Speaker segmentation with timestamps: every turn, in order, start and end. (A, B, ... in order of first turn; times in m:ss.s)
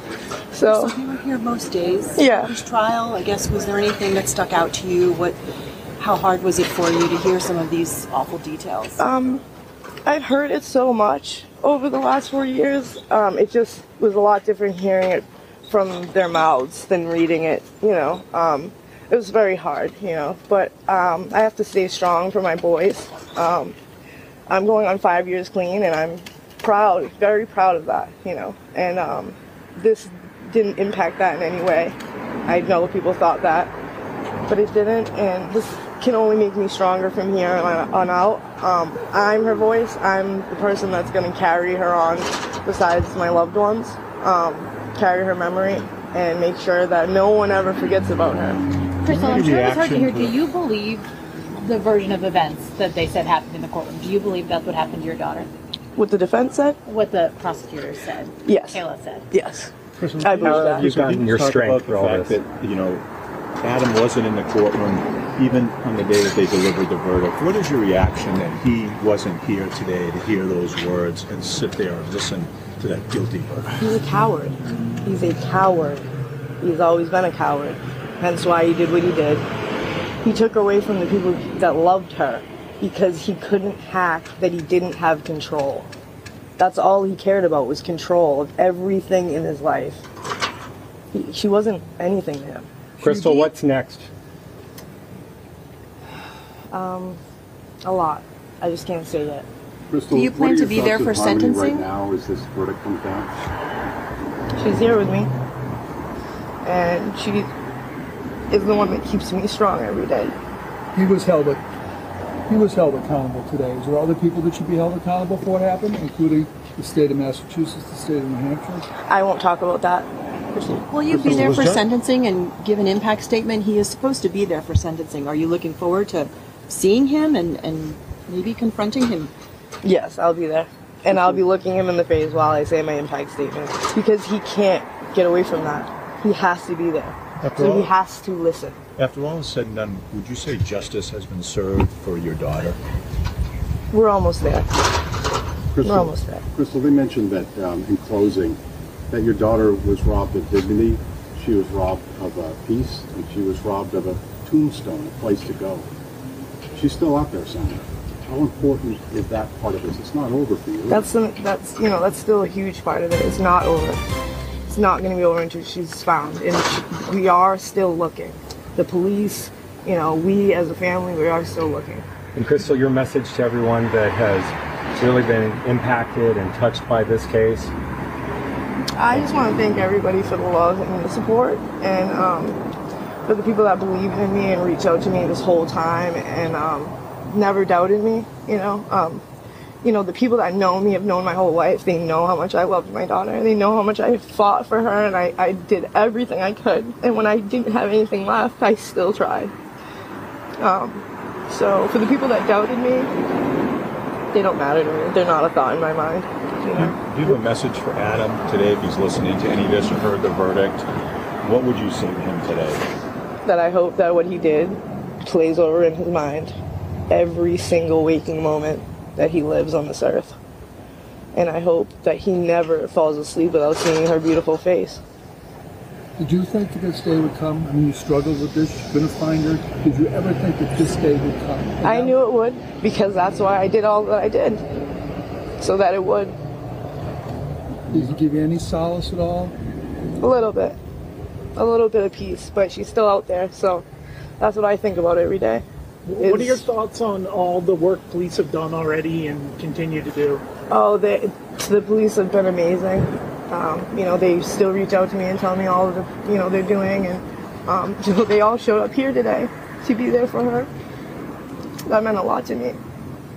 0:00.5-0:01.0 A
0:00.7-0:05.4 B
0:02.2-0:02.6 A
0:06.0-0:09.0 B
0:09.0-0:09.4 A
0:10.1-0:23.8 A
0:24.5-0:33.7 A
0:34.5-0:48.6 A
0:49.0-0:55.5 C
0:49.1-0:50.3 D
0:56.0-0:56.8 A
0:56.8-0:59.3 C
0:58.5-0:58.8 A
0:59.3-1:00.9 A
1:00.0-1:03.0 D
1:00.4-1:02.4 E
1:03.6-1:13.9 D
1:13.8-1:16.1 A
1:16.6-1:19.4 A
1:20.2-1:25.9 A
1:26.6-1:30.0 A
1:31.1-1:32.7 A
1:33.0-1:34.1 E
1:33.0-1:33.5 F
1:36.7-1:37.2 A
1:37.8-1:39.5 A
1:39.9-1:43.4 G
1:40.1-1:41.9 B
1:44.6-1:45.3 A
1:46.6-1:47.5 A
1:48.5-1:50.4 A
1:50.9-1:51.6 F
1:52.5-1:58.9 F
1:59.1-2:00.1 A
2:00.6-2:09.3 B
2:01.1-2:01.9 D
2:09.8-2:18.8 A
2:17.4-2:17.9 D
2:19.0-2:22.8 D
2:23.9-2:24.8 A
2:25.7-2:28.6 G
2:25.8-2:26.4 A
2:29.1-2:35.9 G
2:36.7-2:41.1 G
2:40.9-2:44.0 A
2:44.7-2:52.0 A
2:52.4-2:57.7 E
2:59.0-3:02.6 A
3:03.3-3:09.2 A
3:09.8-3:19.5 A
3:20.6-3:23.1 A
3:24.3-3:27.4 A
3:26.8-3:30.8 D
3:31.4-3:32.8 D
3:33.4-3:36.5 A
3:37.1-3:40.3 A
3:41.3-3:45.0 A
3:46.2-3:52.2 F
3:51.8-3:54.6 A
3:55.6-3:56.4 A
3:57.9-3:59.6 F
4:00.2-4:00.8 A
4:01.6-4:03.9 A
4:04.4-4:05.6 A
4:06.0-4:10.5 H
4:06.2-4:06.7 A
4:10.7-4:20.7 A
4:21.9-4:22.8 A